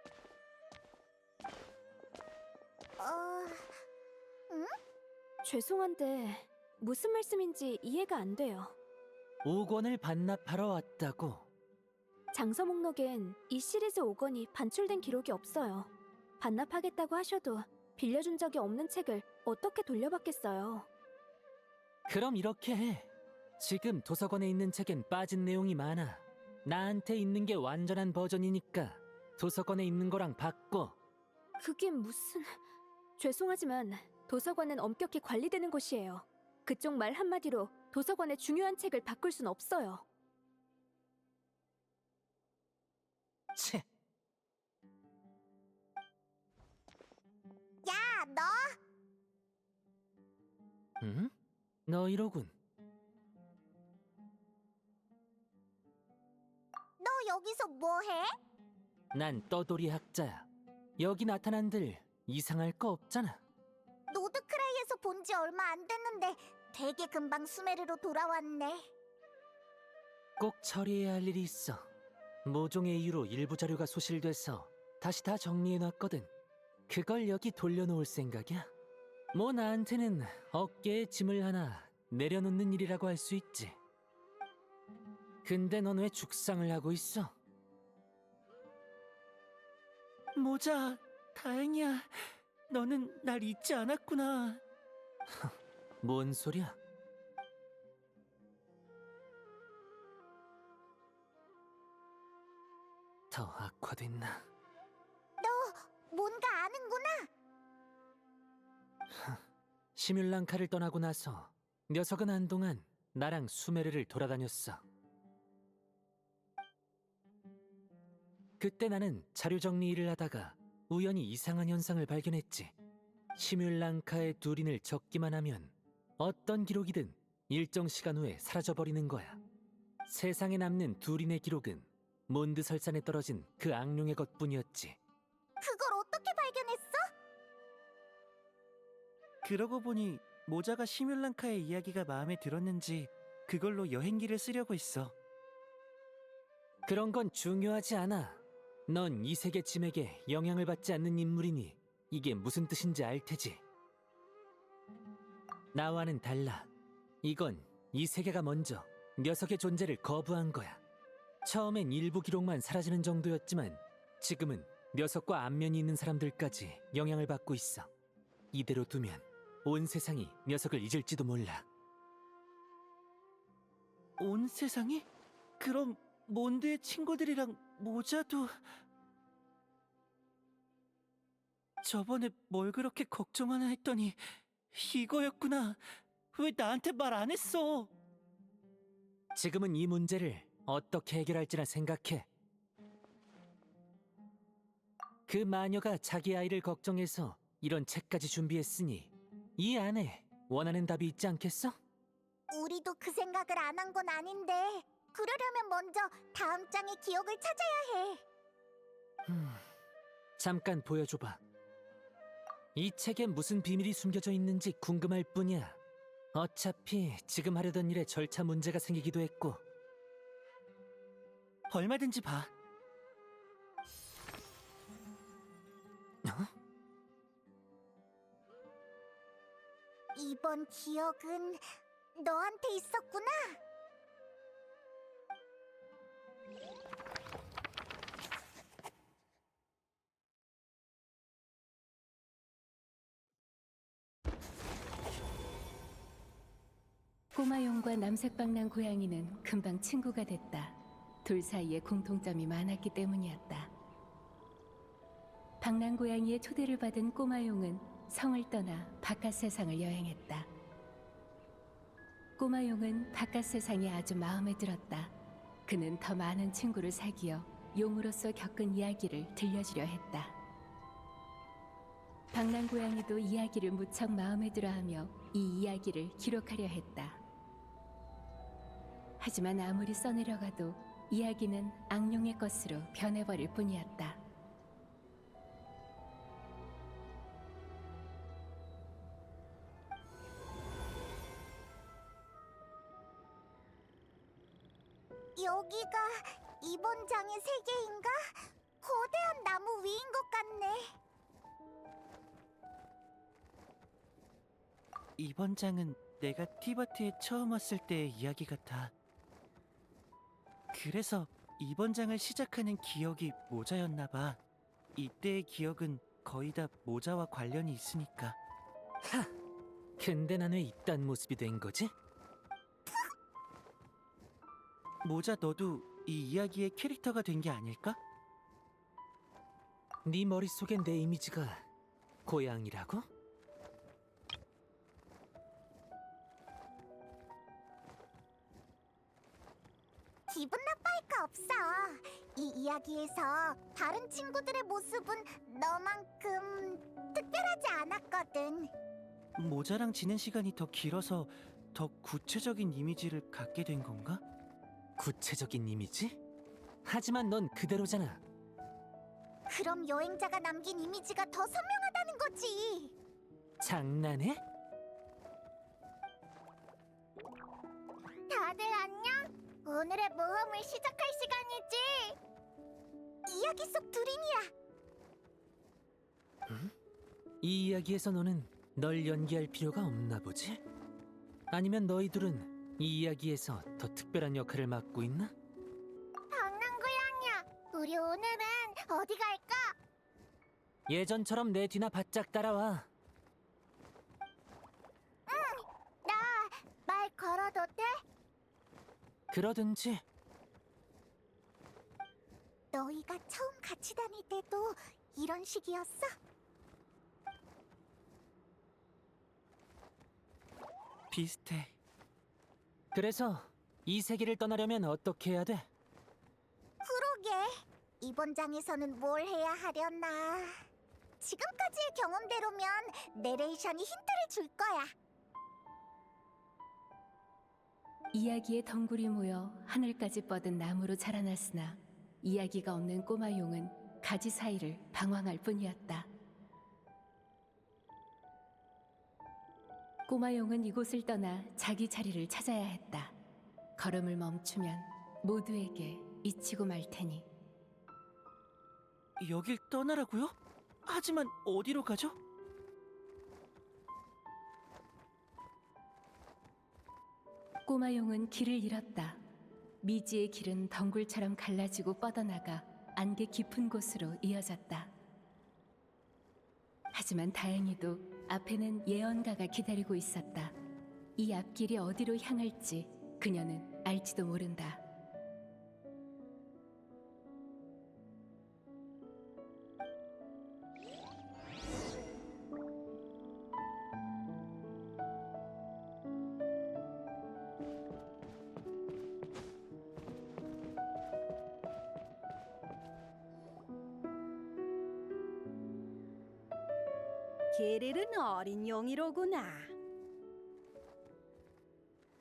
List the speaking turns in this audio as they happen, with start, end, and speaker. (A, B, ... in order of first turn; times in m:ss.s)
0:03.0-0:03.8 A
0:04.5-0:04.7 A
0:05.4-0:08.7 B
0:09.4-0:11.5 C
0:12.3-0:15.9 B
0:16.4-0:20.9 B
0:22.1-0:31.0 C
0:31.6-0:32.6 B
0:33.2-0:40.0 B
0:43.5-0:43.8 C
0:47.8-0:48.8 A
0:51.0-0:51.3 C
0:51.9-0:52.5 C
0:57.0-0:58.3 A
0:59.1-1:00.5 C
1:01.0-1:03.4 C
1:04.1-1:08.9 A
1:10.4-1:11.9 C
1:12.4-1:16.3 C
1:16.9-1:18.7 C
1:19.3-1:23.8 C
1:25.4-1:27.3 C
1:30.3-1:34.6 D
1:35.3-1:36.8 C
1:43.3-1:44.4 C
1:45.4-1:47.3 A
1:49.1-1:49.4 C
1:49.9-1:54.8 C
1:58.6-2:02.7 C
2:03.4-2:09.4 C
2:10.0-2:15.0 C
2:15.6-2:17.1 A
2:19.4-2:25.1 D
2:26.8-2:33.6 C
2:35.7-2:36.7 C
2:37.2-2:40.8 C
2:41.4-2:47.9 C
2:48.5-2:51.6 C
2:54.2-2:55.0 D
2:55.6-2:58.8 D
3:01.8-3:07.9 D
3:09.3-3:12.3 C
3:15.3-3:21.8 C
3:22.5-3:28.2 A
3:29.2-3:29.6 C
3:30.4-3:31.4 C
3:32.7-3:35.8 C
3:36.3-3:39.6 C
3:41.7-3:42.5 D
3:46.2-3:46.5 C
3:50.1-3:51.6 A
3:52.2-3:53.6 A
4:07.3-4:13.7 E
4:15.6-4:20.5 E
4:22.4-4:25.1 E
4:25.6-4:30.4 E
4:32.3-4:37.2 E
4:39.2-4:44.2 E
4:55.4-5:00.9 A
5:05.2-5:08.9 D
5:10.7-5:14.4 D
5:15.0-5:18.4 D
5:19.0-5:19.3 C
5:20.0-5:21.9 C
5:25.0-5:28.0 D
5:30.0-5:31.6 C
5:32.2-5:33.1 C
5:40.3-5:48.7 A
5:49.4-5:54.2 D
5:55.0-5:56.2 C
5:56.8-5:58.2 C
5:59.5-6:02.9 A
6:03.6-6:04.4 C
6:08.3-6:12.2 A
6:13.3-6:14.5 A
6:16.5-6:16.7 C
6:17.4-6:20.6 C
6:21.5-6:25.3 C
6:26.3-6:29.8 A
6:30.9-6:32.9 C
6:35.3-6:38.0 A
6:39.3-6:40.0 C
6:42.7-6:46.1 A
6:51.1-6:51.8 D
6:52.9-6:55.7 C
6:56.8-7:00.6 A
7:01.2-7:04.9 A
7:08.1-7:16.1 E
7:20.1-7:23.1 E
7:23.8-7:27.3 E
7:29.2-7:32.2 D
7:37.6-7:39.2 E
7:39.8-7:44.9 E
7:46.9-7:50.6 E
7:51.2-7:54.8 E
8:17.5-8:19.7 F